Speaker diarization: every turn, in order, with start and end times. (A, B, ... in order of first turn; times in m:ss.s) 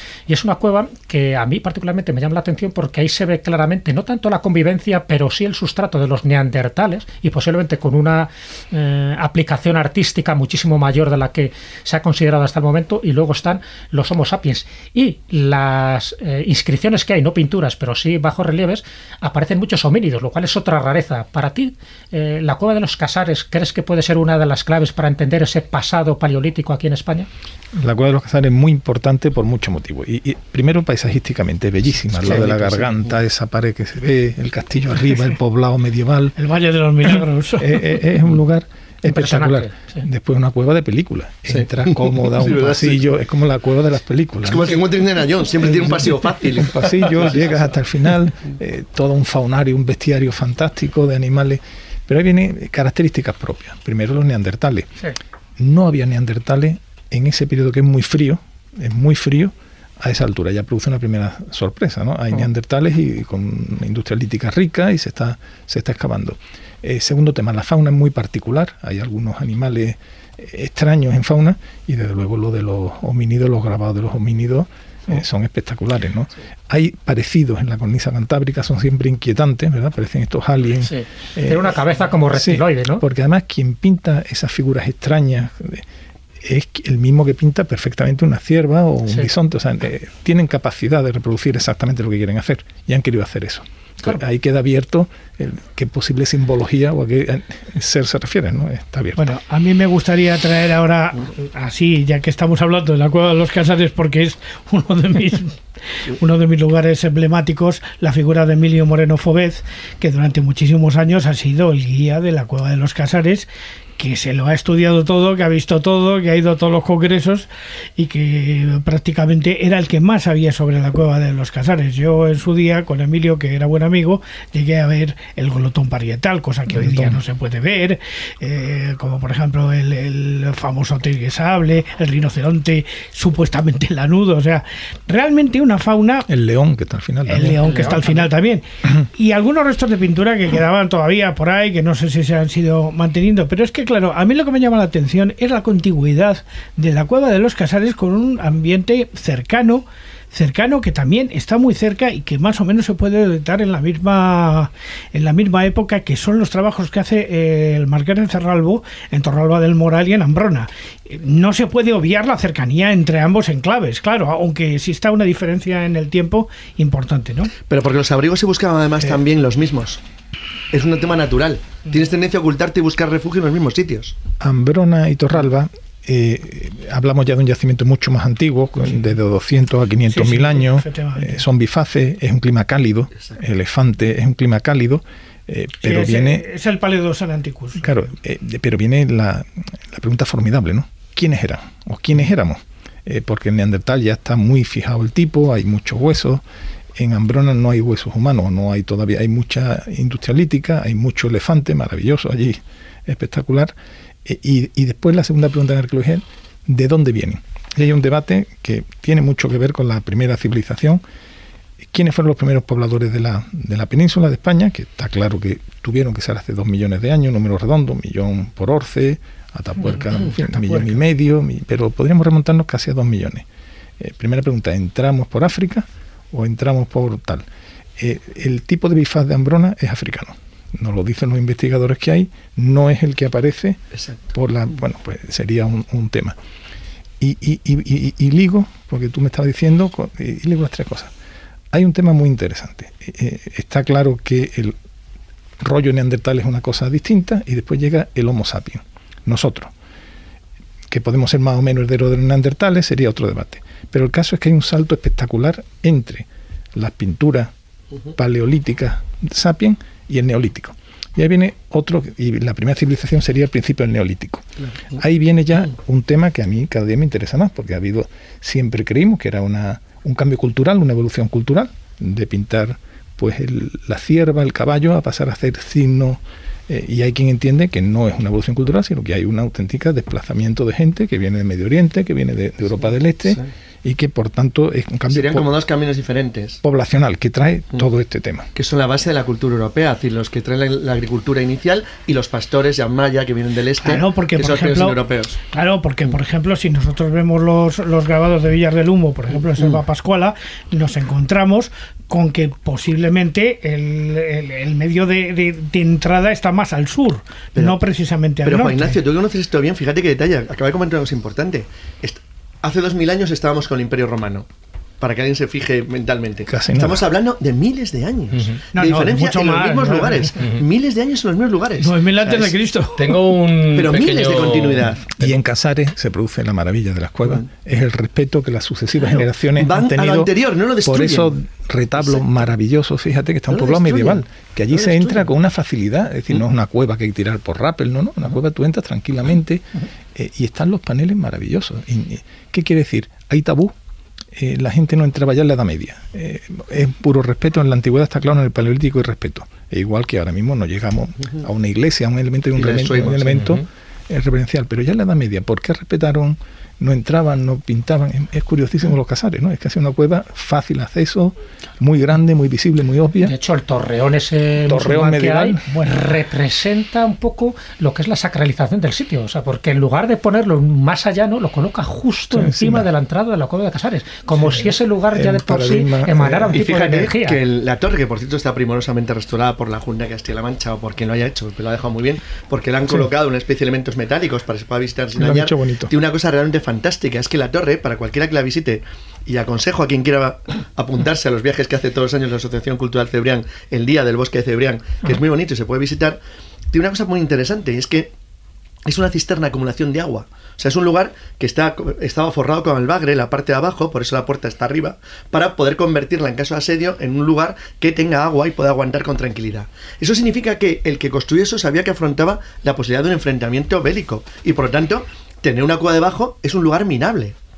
0:00.3-0:27.3 A
0:27.7-0:36.4 B
0:32.2-0:33.0 C
0:36.4-0:37.8 D
0:37.6-0:44.8 B
0:39.1-0:40.0 A
0:41.5-0:43.0 C
0:44.4-0:47.4 C
0:45.6-0:54.9 B
0:55.6-1:21.8 B
1:20.8-1:23.0 A
1:22.3-1:25.8 B
1:26.4-1:39.4 B
1:39.2-2:16.3 D
2:06.7-2:07.2 B
2:16.3-2:18.1 B
2:17.3-2:47.5 D
2:17.7-2:17.9 A
2:47.7-2:50.0 C
2:50.7-2:54.2 C
2:54.4-3:06.5 B
3:00.1-3:01.4 D
3:05.8-3:07.9 D
3:07.8-3:16.4 B
3:17.0-3:23.7 B
3:24.2-3:31.0 B
3:31.8-3:43.5 B
3:44.0-3:47.5 B
3:48.0-3:53.8 B
3:54.0-3:54.2 C
3:54.3-3:56.4 B
3:57.2-4:01.1 B
4:01.7-4:04.8 B
4:05.6-4:09.7 B
4:10.9-4:17.5 B
4:18.1-4:45.5 B
4:45.1-4:46.6 C
4:46.6-4:48.5 B
4:48.6-4:55.4 C
4:53.8-4:55.0 D
4:55.5-5:09.0 D
5:07.6-5:07.8 C
5:08.4-5:14.5 C
5:15.0-5:22.5 C
5:16.5-5:17.1 B
5:18.7-5:20.3 D
5:21.8-5:23.2 D
5:23.0-5:25.0 E
5:23.7-5:25.1 C
5:25.2-5:30.3 B
5:29.6-5:31.3 C
5:30.8-5:43.7 B
5:33.5-5:35.3 C
5:44.3-6:03.3 B
5:52.6-5:53.4 C
5:53.3-5:53.6 E
6:03.2-6:17.4 A
6:04.7-6:06.1 B
6:12.3-6:12.9 B
6:14.4-6:16.6 B
6:16.5-6:36.2 C
6:25.2-6:25.9 B
6:36.7-6:38.1 C
6:38.8-6:57.4 C